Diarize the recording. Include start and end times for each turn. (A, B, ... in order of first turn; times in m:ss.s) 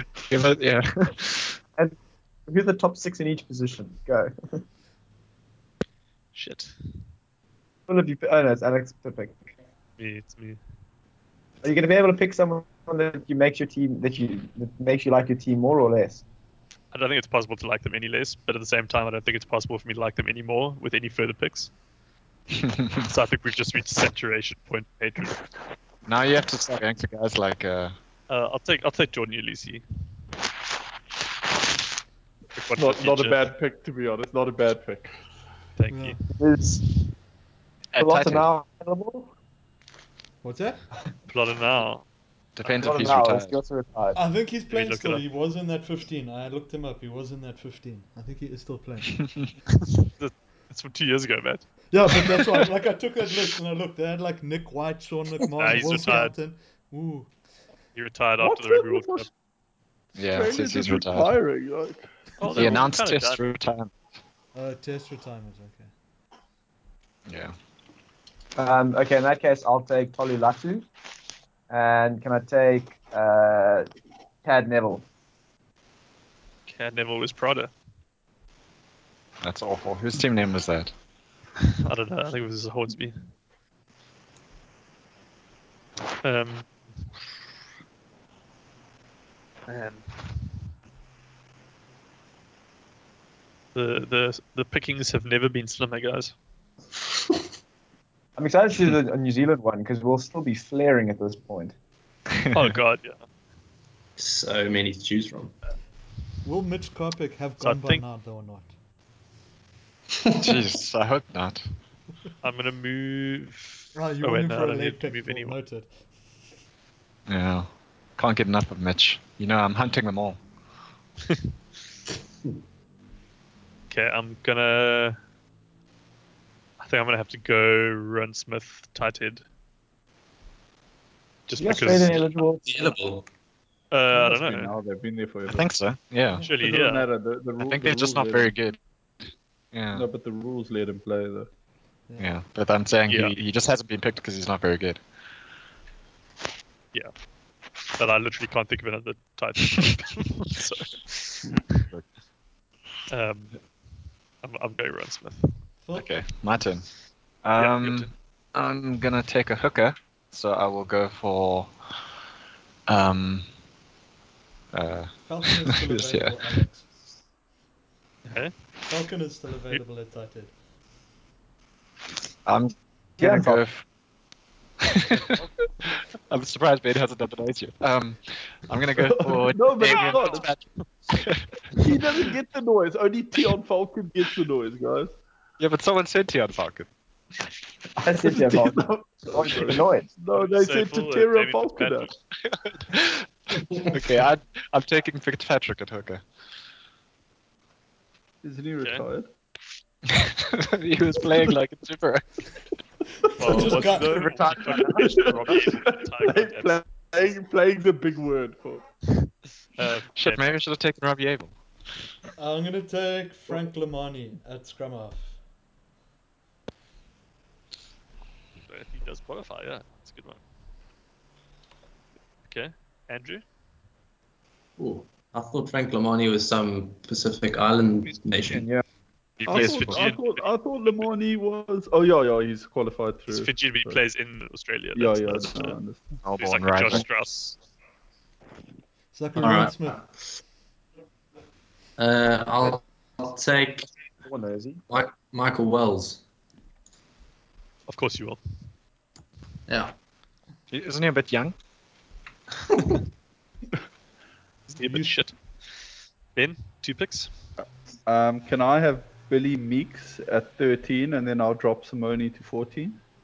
0:00.2-0:01.6 A
0:01.8-0:04.6 B
0:06.4-0:06.8 C
0:07.9-0:09.5 B
0:10.0-0:10.6 C
0:11.6-0:16.2 B
0:16.9-0:21.7 C
0:22.5-0:23.1 A
0:23.0-0:25.4 C
0:26.0-0:27.9 A
0:28.3-0:29.8 C
0:32.6-0:33.5 C
0:32.8-0:35.2 D
0:35.8-0:36.2 C
0:35.9-0:36.2 E
0:36.4-0:36.9 B
0:37.9-0:38.5 A
0:38.0-0:39.3 B
0:40.4-0:40.8 E
0:41.3-0:42.0 C
0:42.6-0:43.6 A
0:42.8-0:44.2 B
0:44.2-0:49.2 E
0:44.7-0:45.2 C
0:50.2-0:52.0 C
0:51.9-0:57.3 E
0:55.6-0:56.4 C
0:58.0-0:59.3 C
0:58.4-0:59.3 D
1:00.2-1:01.3 A
1:00.2-1:02.8 D
1:02.4-1:03.4 C
1:02.5-1:03.9 A
1:04.5-1:05.9 E
1:07.3-1:07.6 A
1:08.6-1:10.9 B
1:11.7-1:13.9 B
1:14.4-1:15.1 B
1:16.7-1:17.7 C
1:19.4-1:20.9 A
1:21.8-1:23.3 C
1:26.2-1:26.7 C
1:29.7-1:30.5 C
1:33.8-1:36.4 C
1:38.4-1:41.8 B
1:42.5-1:43.2 C
1:44.2-1:45.6 F
1:46.4-1:48.7 E
1:47.6-1:48.0 C
1:50.3-1:51.6 A
1:52.4-1:55.6 C
1:53.9-1:56.0 E
1:57.3-2:00.4 A
2:03.9-2:05.2 C
2:06.8-2:09.4 C
2:11.5-2:12.3 C
2:11.6-2:13.0 B
2:12.7-2:13.3 F
2:13.9-2:14.8 C
2:14.1-2:15.7 D
2:15.5-2:16.5 A
2:16.5-2:17.1 C
2:16.6-2:18.5 D
2:17.6-2:18.8 A
2:19.7-2:20.1 A
2:19.9-2:21.5 D
2:22.2-2:25.0 A
2:23.1-2:23.4 C
2:27.9-2:31.6 C
2:31.8-2:32.1 A
2:33.1-2:33.7 C
2:34.4-2:35.5 C
2:35.8-2:36.1 E
2:36.0-2:36.9 A
2:37.4-2:41.7 A
2:37.6-2:38.1 C
2:42.9-2:43.5 A
2:44.7-2:46.4 A
2:45.3-2:46.9 E
2:48.9-2:50.5 E
2:52.5-2:53.9 A
2:53.2-2:53.6 B
2:54.8-3:01.5 A
2:59.0-3:00.5 D
2:59.8-3:00.8 C
3:01.8-3:05.1 D
3:05.6-3:06.9 A
3:08.0-3:10.1 B
3:08.2-3:12.1 D
3:10.3-3:12.1 C
3:12.5-3:13.3 A
3:13.8-3:16.2 A
3:18.4-3:19.3 D
3:20.1-3:22.4 A
3:23.4-3:27.1 C
3:23.4-3:24.3 E
3:24.2-3:25.2 B
3:25.0-3:28.8 D
3:29.8-3:30.4 C
3:30.2-3:31.6 A
3:32.4-3:35.4 E
3:38.7-3:40.4 C
3:42.5-3:43.4 C
3:44.8-3:48.7 F
3:48.5-3:48.8 B
3:49.4-3:50.2 A
3:49.5-3:54.0 D
3:49.5-3:51.0 C
3:53.3-3:55.8 C
3:55.0-3:56.2 D
3:56.2-3:57.1 A
3:56.4-3:57.6 C
3:59.1-4:00.0 E
3:59.4-4:00.1 F
4:02.0-4:03.9 F
4:04.2-4:04.8 B
4:04.9-4:06.2 F
4:07.9-4:08.4 C
4:09.7-4:10.0 F
4:10.7-4:11.6 A
4:14.7-4:15.4 C
4:16.4-4:17.3 C
4:18.1-4:23.0 D